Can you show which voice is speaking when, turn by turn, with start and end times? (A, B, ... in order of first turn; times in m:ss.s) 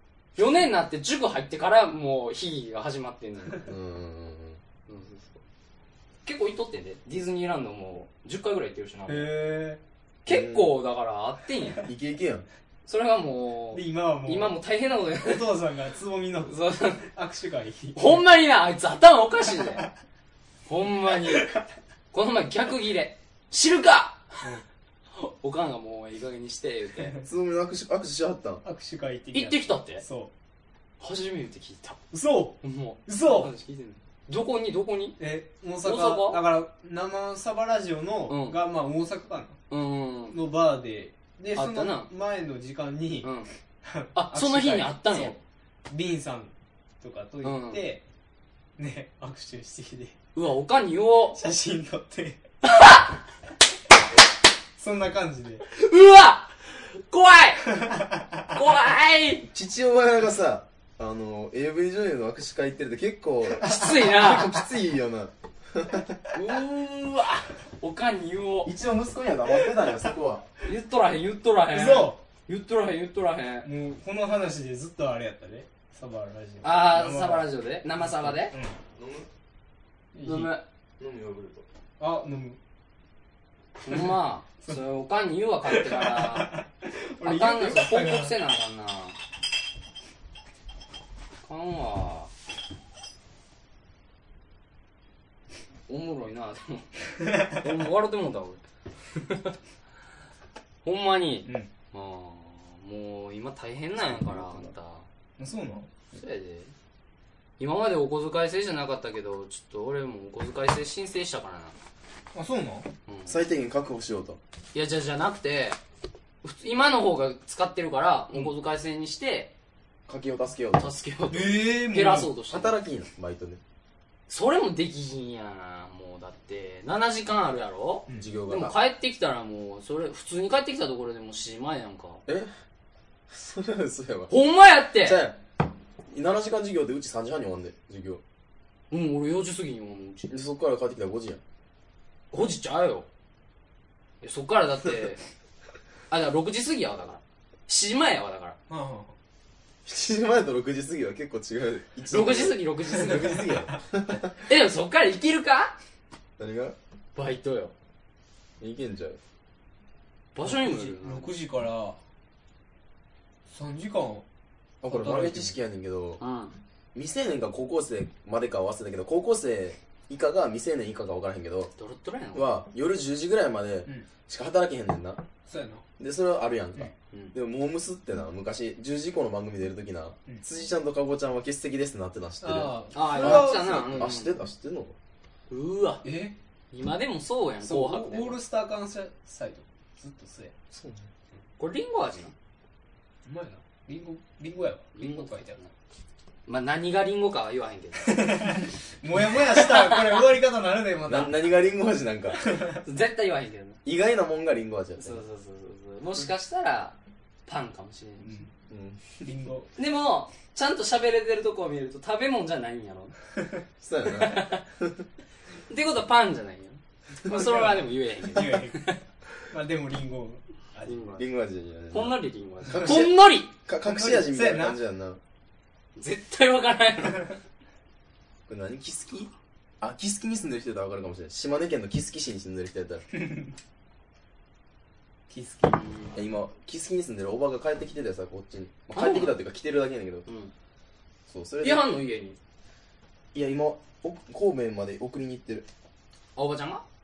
0:00.4-0:03.6 A
0:03.6-0:04.6 B
0:04.9-0:05.4 A
0:06.2-0:09.3 A
0:09.1-0:09.8 C
0:10.2-0:11.9 A
0:10.2-0:10.8 B
0:11.8-0:12.4 B
0:12.9-0:15.5 A
0:13.7-0:14.6 C
0:15.1-0:18.2 C
0:16.4-0:17.0 A
0:17.9-0:19.9 A
0:20.6-0:21.6 A
0:22.1-0:24.5 A
0:25.1-0:27.2 A
0:27.2-0:28.6 B
0:28.6-0:30.3 C
0:29.3-0:30.0 A
0:31.0-0:32.0 A
0:32.1-0:33.5 C
0:32.6-0:35.2 A
0:35.2-0:39.6 C
0:35.8-0:36.4 A
0:38.3-0:38.6 A
0:39.7-0:40.4 A
0:40.3-0:43.3 C
0:41.5-0:42.1 A
0:43.2-0:43.5 A
0:43.8-0:45.4 C
0:44.1-0:45.4 A
0:45.9-0:48.0 C
0:47.4-0:47.9 A
0:48.8-0:50.2 C
0:50.3-0:51.4 A
0:51.3-0:52.4 C
0:52.6-0:53.2 A
0:54.8-0:55.6 C
0:55.7-0:57.8 A
0:57.7-0:58.4 C
0:58.5-0:59.5 A
0:59.4-1:06.2 B
1:03.5-1:04.6 A
1:06.3-1:08.7 A
1:08.6-1:10.4 B
1:10.6-1:13.7 A
1:11.7-1:12.2 C
1:13.6-1:18.8 C
1:16.6-1:18.5 A
1:19.0-1:19.3 B
1:20.1-1:20.5 C
1:20.2-1:20.6 A
1:21.0-1:21.6 B
1:22.0-1:22.6 C
1:23.8-1:26.6 A
1:23.9-1:24.8 C
1:25.6-1:28.4 C
1:27.2-1:29.2 A
1:31.4-1:32.3 A
1:35.9-1:36.9 A
1:37.3-1:37.6 C
1:37.4-1:38.6 A
1:39.2-1:39.5 A
1:40.8-1:45.1 A
1:41.4-1:41.7 C
1:44.1-1:44.7 B
1:45.4-1:45.9 C
1:46.1-1:46.7 A
1:47.6-1:51.8 A
1:52.3-1:52.9 C
1:53.1-1:53.4 A
1:53.3-1:54.4 B
1:54.7-1:55.8 A
1:56.4-1:59.5 A
2:00.1-2:00.9 B
2:00.8-2:02.8 A
2:01.3-2:02.3 C
2:02.5-2:03.6 B
2:04.3-2:12.2 A
2:08.1-2:08.8 B
2:13.3-2:14.3 B
2:14.3-2:15.2 A
2:15.0-2:15.4 B
2:16.1-2:18.2 B
2:18.9-2:20.3 A
2:20.3-2:21.4 B
2:22.3-2:23.1 A
2:24.2-2:25.2 A
2:26.1-2:28.6 A
2:28.7-2:29.1 C
2:29.8-2:34.3 B
2:32.1-2:33.4 A
2:34.4-2:35.7 A
2:36.4-2:36.8 B
2:37.1-2:37.7 A
2:38.6-2:39.2 B
2:40.3-2:41.3 A
2:40.4-2:42.0 C
2:43.5-2:44.2 C
2:44.8-2:46.2 B
2:44.8-2:45.5 C
2:46.2-2:46.6 A
2:46.9-2:51.7 B
2:51.8-2:52.5 A
2:52.3-2:55.2 B
2:55.5-2:55.8 C
2:56.0-3:04.9 B
3:02.4-3:04.1 C
3:02.9-3:04.4 A
3:05.5-3:06.0 A
3:06.0-3:06.3 C
3:06.7-3:08.4 A
3:07.6-3:10.5 C
3:10.7-3:11.1 B
3:11.6-3:12.3 A
3:13.2-3:15.6 C
3:15.0-3:15.7 A
3:16.5-3:18.5 A
3:18.0-3:21.4 C
3:19.5-3:20.2 A
3:21.0-3:22.4 B
3:22.4-3:22.8 C
3:22.7-3:23.8 A
3:23.8-3:25.2 B
3:25.0-3:28.4 A
3:28.2-3:28.5 C
3:28.7-3:29.2 B
3:29.2-3:29.7 C
3:29.8-3:33.1 A
3:33.8-3:35.0 B
3:34.1-3:34.6 A
3:35.7-3:39.0 A
3:37.3-3:41.2 C
3:40.8-3:41.2 A
3:41.2-3:45.2 B
3:41.9-3:43.5 A
3:43.8-3:44.8 C
3:46.0-3:47.4 A
3:48.5-3:53.0 B
3:53.1-3:53.5 C
3:55.3-3:55.8 C
3:55.7-3:56.2 A
3:56.1-4:00.2 B
3:58.9-3:59.4 A
4:00.3-4:00.5 A
4:01.3-4:01.9 B
4:01.6-4:02.4 A
4:03.3-4:05.6 B
4:06.4-4:06.8 A